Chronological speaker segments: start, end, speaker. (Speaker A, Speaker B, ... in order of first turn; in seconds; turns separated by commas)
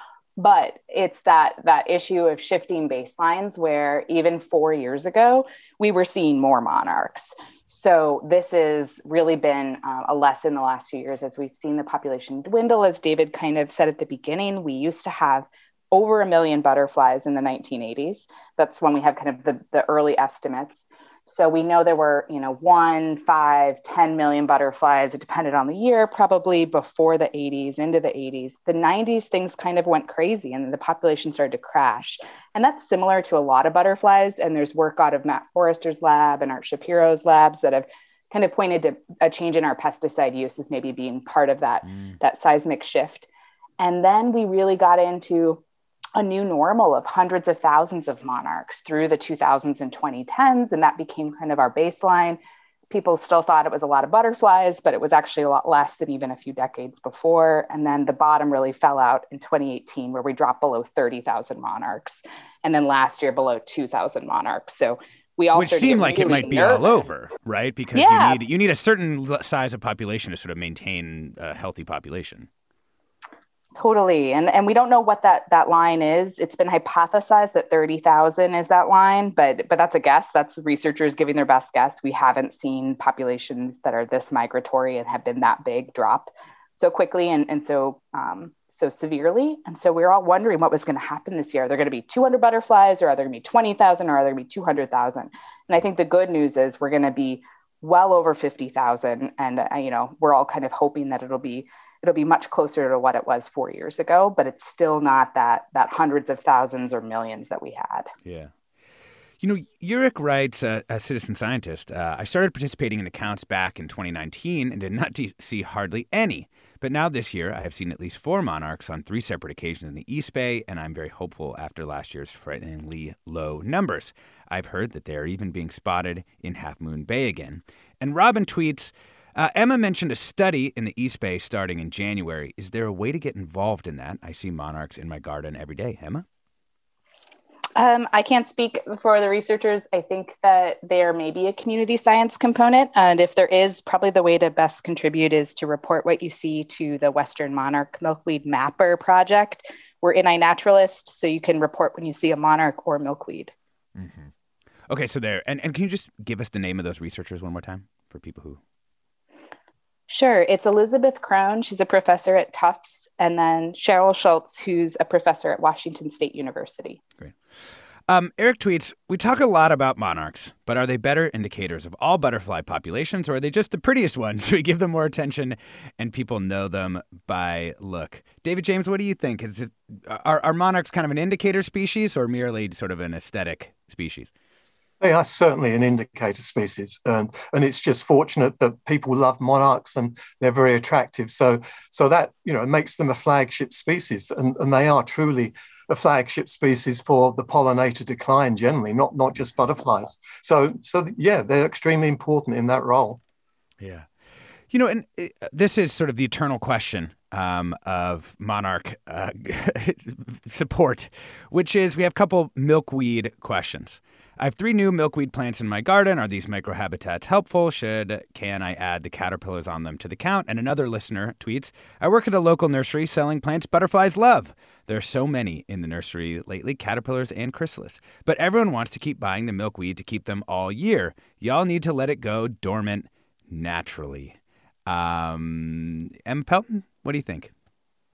Speaker A: 0.4-45.6, Speaker B: 41.9-42.1, Speaker A: 46.2-52.4, Speaker A: 52.9-67.0, Speaker B: 65.5-72.5, Speaker A: 68.0-68.4, Speaker A: 73.8-108.1, Speaker B: 108.2-108.5, Speaker B: 109.4-136.2, Speaker A: 137.8-153.5, Speaker B: 154.0-154.3, Speaker B: 154.9-158.6, Speaker A: 160.1-167.0, Speaker B: 168.1-184.3, Speaker C: 185.0-203.2, Speaker B: 203.8-204.1, Speaker B: 204.7-237.5